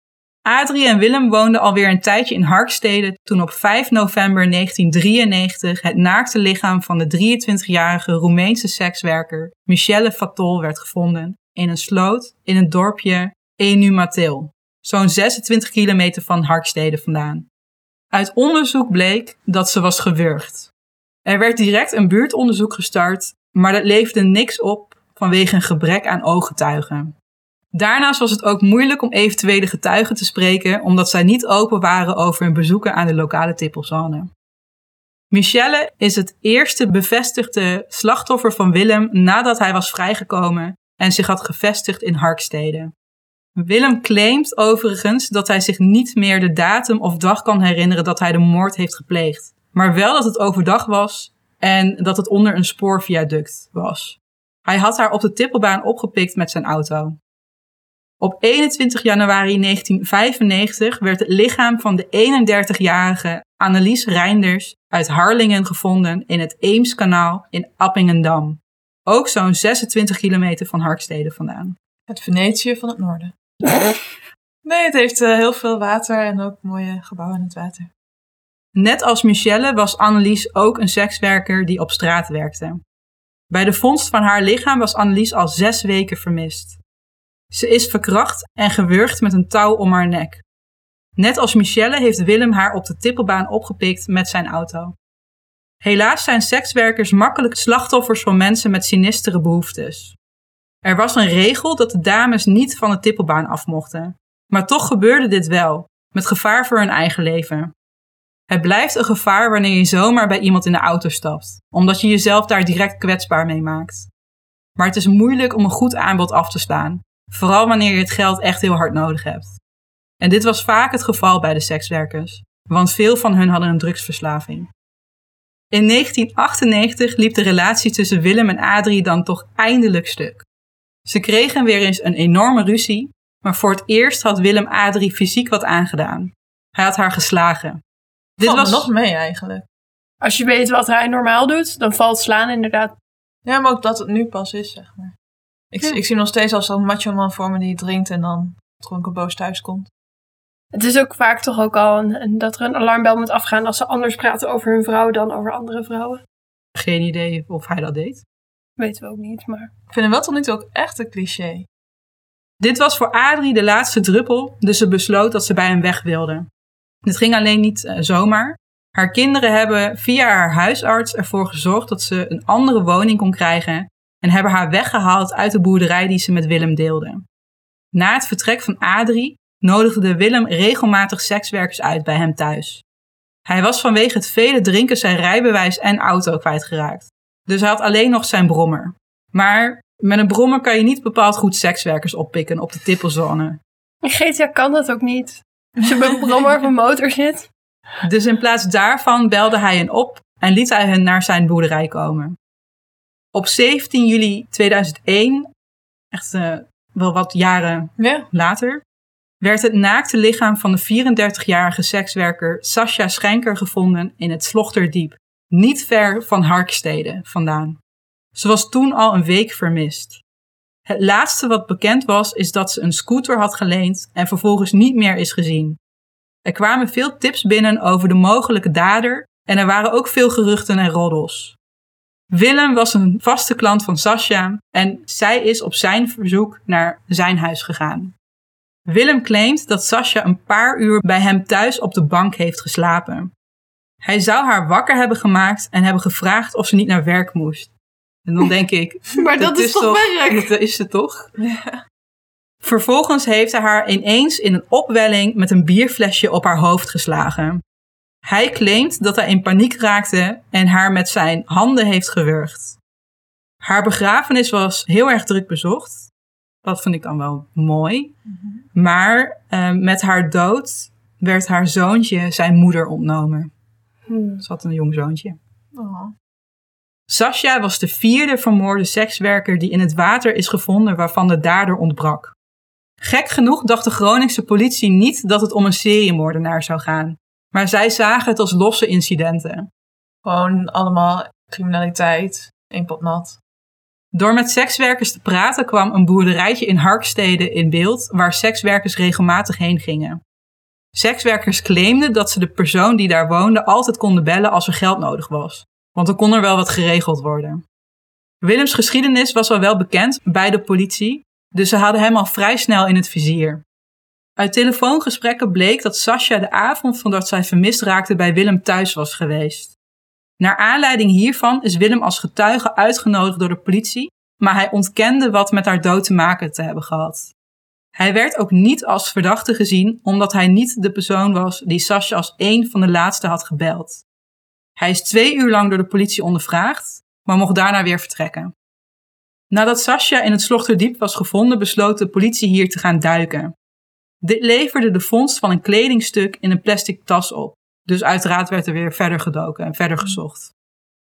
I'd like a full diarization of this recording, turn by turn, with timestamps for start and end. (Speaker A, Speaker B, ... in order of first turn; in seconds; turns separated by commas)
Speaker A: 0.4-17.5, Speaker A: 18.1-20.7, Speaker A: 21.2-27.1, Speaker A: 27.7-34.3, Speaker A: 35.3-42.9, Speaker A: 43.5-57.2, Speaker A: 58.2-71.8, Speaker B: 72.1-73.3, Speaker B: 74.6-77.9, Speaker A: 78.7-82.8, Speaker A: 83.5-86.8, Speaker A: 87.5-90.4, Speaker A: 91.2-94.9, Speaker A: 95.8-100.2, Speaker A: 100.8-107.7, Speaker A: 108.5-114.1, Speaker A: 114.8-119.6, Speaker A: 120.2-124.7, Speaker A: 125.7-130.4, Speaker A: 131.1-137.8, Speaker A: 138.4-138.9, Speaker B: 138.4-139.7, Speaker C: 140.2-142.9, Speaker B: 143.4-145.1, Speaker B: 145.7-149.9, Speaker C: 150.7-156.2, Speaker A: 156.8-158.2, Speaker C: 158.8-159.7, Speaker B: 159.9-161.7, Speaker A: 162.6-166.5, Speaker A: 167.0-177.2, Speaker A: 177.9-182.8, Speaker A: 183.5-193.6, Speaker C: 194.0-197.5, Speaker A: 198.0-202.3, Speaker A: 203.3-205.5, Speaker A: 206.1-208.8, Speaker B: 208.0-208.3, Speaker A: 209.4-217.8, Speaker A: 218.3-220.2, Speaker A: 220.8-225.8, Speaker A: 226.4-231.6, Speaker A: 232.3-238.1, Speaker A: 238.8-243.3, Speaker A: 244.0-247.7, Speaker A: 248.2-251.3, Speaker C: 249.2-250.5, Speaker B: 251.4-251.8, Speaker A: 252.6-257.6, Speaker A: 258.2-262.8, Speaker A: 263.6-266.1, Speaker A: 266.6-268.1, Speaker B: 268.3-268.6, Speaker A: 268.7-273.5, Speaker C: 274.1-274.4, Speaker A: 274.4-275.4, Speaker B: 275.7-276.1, Speaker A: 277.1-282.3, Speaker A: 283.0-289.7, Speaker B: 290.2-293.4, Speaker A: 294.1-300.2, Speaker A: 300.9-307.6, Speaker A: 308.4-313.6, Speaker A: 314.4-319.7, Speaker A: 320.4-327.3, Speaker A: 327.9-334.0, Speaker A: 334.8-338.5, Speaker A: 339.5-343.5, Speaker A: 344.2-350.5